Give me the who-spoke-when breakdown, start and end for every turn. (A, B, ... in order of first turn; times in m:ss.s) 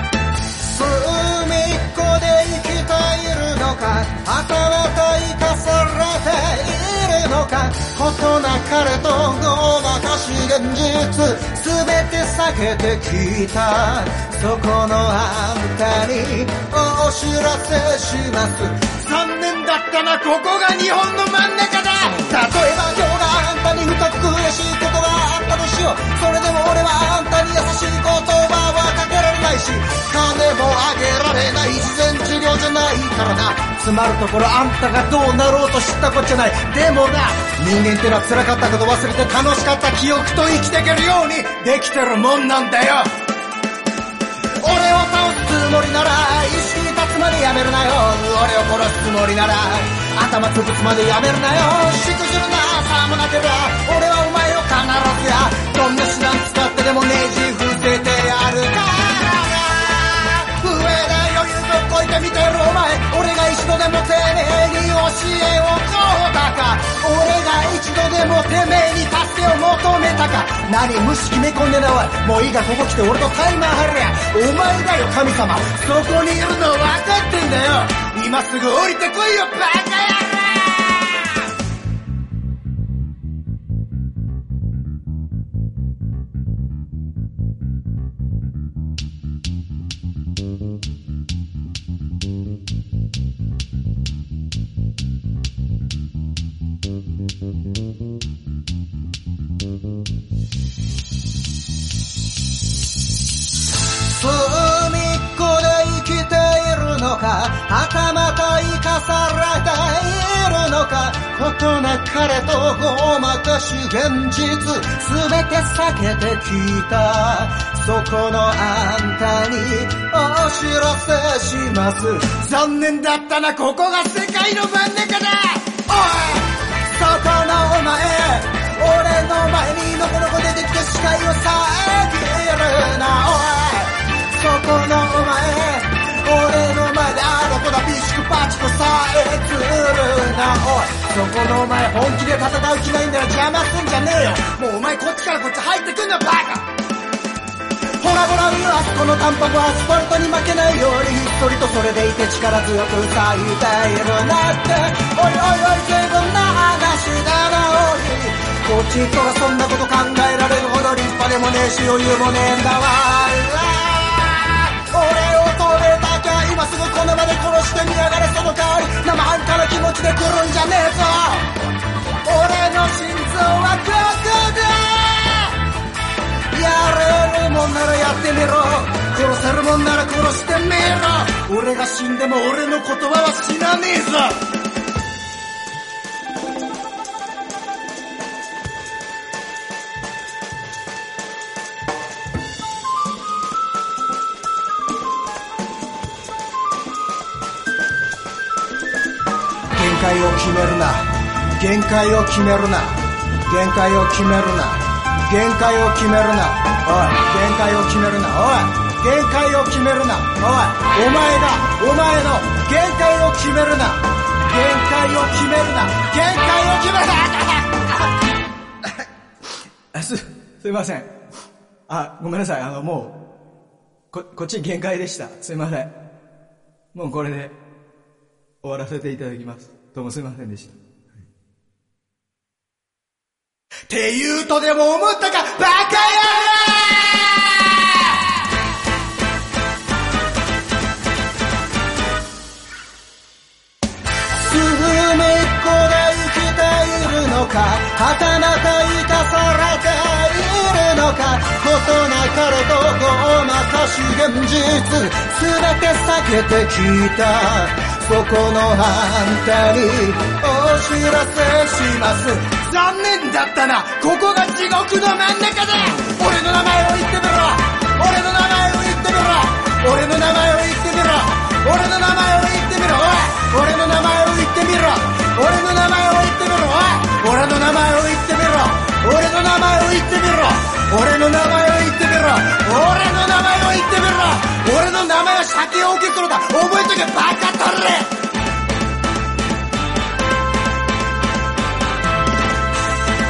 0:00.6-0:43.1 A
0:44.6-1:21.2 A
1:44.0-2:26.7 A
2:28.0-2:51.5 A
2:52.2-2:55.6 A
2:56.5-3:04.4 A
3:19.8-3:38.1 A
3:39.9-3:41.1 A
3:41.9-3:43.2 A
3:44.1-3:45.9 A
3:46.9-3:47.6 A
3:48.6-3:50.8 A
3:53.9-3:57.6 A
4:04.4-4:48.1 A